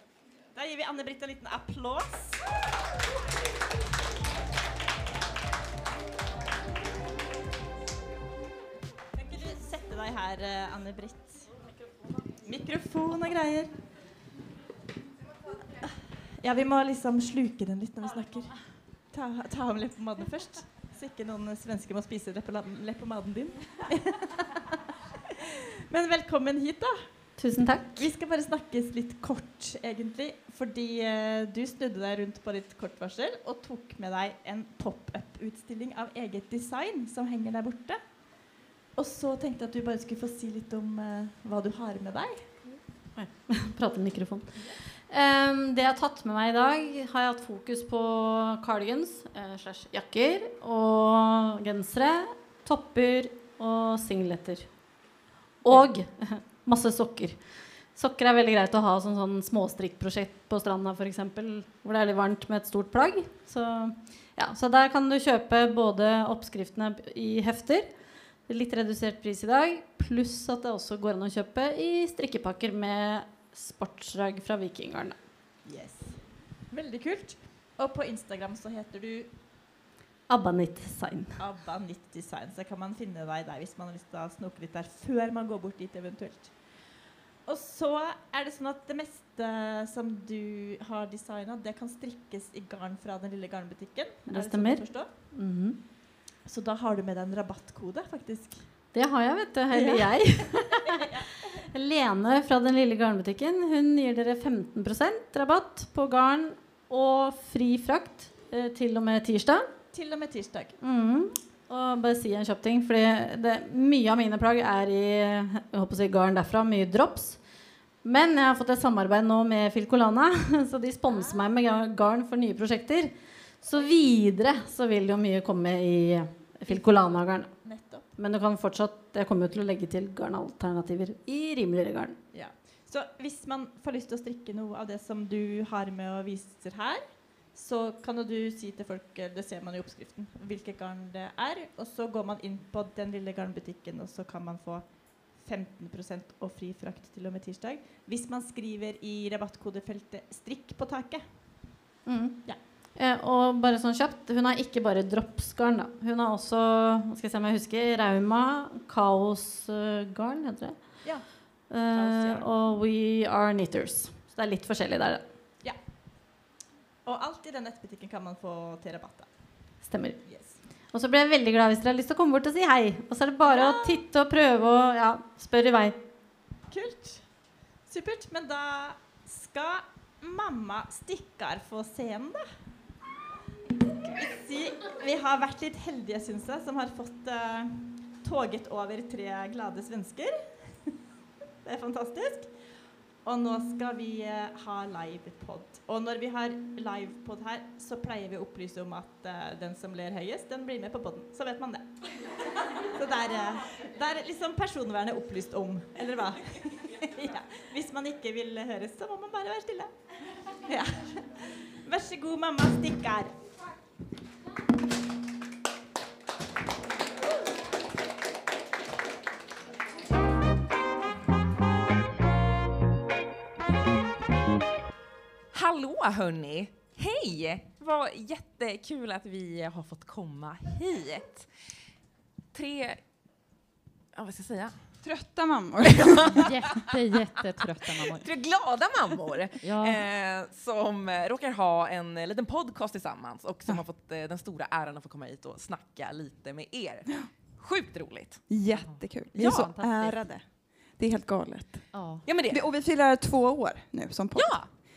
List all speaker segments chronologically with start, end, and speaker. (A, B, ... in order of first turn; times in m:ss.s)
0:00.6-0:02.4 A
0:09.2-0:11.5 A
0:12.4-0:13.7 A
0:15.8-0:18.6 A
0:19.1-0:27.0 A
0:27.4-0:28.1 B
0:28.0-0:38.0 A
0:39.0-0:42.5 A
0:43.2-0:54.7 B
0:55.6-0:57.4 B
0:58.0-1:07.9 B
1:08.5-1:15.2 B
1:15.7-1:16.2 A
1:16.7-1:19.3 A
1:20.3-1:21.4 B
1:21.4-1:26.5 A
1:27.5-1:35.1 A
1:34.3-1:35.8 B
1:36.5-1:38.6 A
1:38.9-1:49.7 B
1:39.7-1:40.1 A
1:49.9-1:50.8 A
1:50.8-1:57.4 B
1:58.0-2:07.5 B
2:01.1-2:01.5 A
2:06.7-2:08.1 A
2:08.2-2:12.2 B
2:12.3-2:17.0 A
2:17.5-2:24.8 A
2:25.4-2:31.2 A
2:32.1-2:32.4 B
2:33.0-2:40.8 B
2:41.7-2:45.2 B
2:41.9-2:42.5 A
2:47.0-2:49.3 A
2:49.8-2:50.2 B
2:50.3-2:50.6 A
2:50.9-2:56.0 B
2:53.5-2:54.0 A
2:56.7-2:57.2 A
2:57.9-3:02.4 A
3:03.8-3:11.0 A
3:11.6-3:12.5 A
3:13.2-3:29.9 A
3:30.5-3:33.4 A
3:45.5-3:51.5 C
3:52.5-3:53.0 C
3:54.2-3:54.8 C
3:55.0-3:56.6 D
3:55.8-3:57.0 C
3:56.3-3:58.3 E
3:58.0-4:08.4 C
3:59.6-4:00.0 E
4:08.5-4:10.4 D
4:08.7-4:10.2 E
4:09.4-4:09.7 C
4:11.0-4:11.8 D
4:11.9-4:12.2 E
4:12.3-4:12.6 C
4:12.5-4:14.6 D
4:14.4-4:14.7 C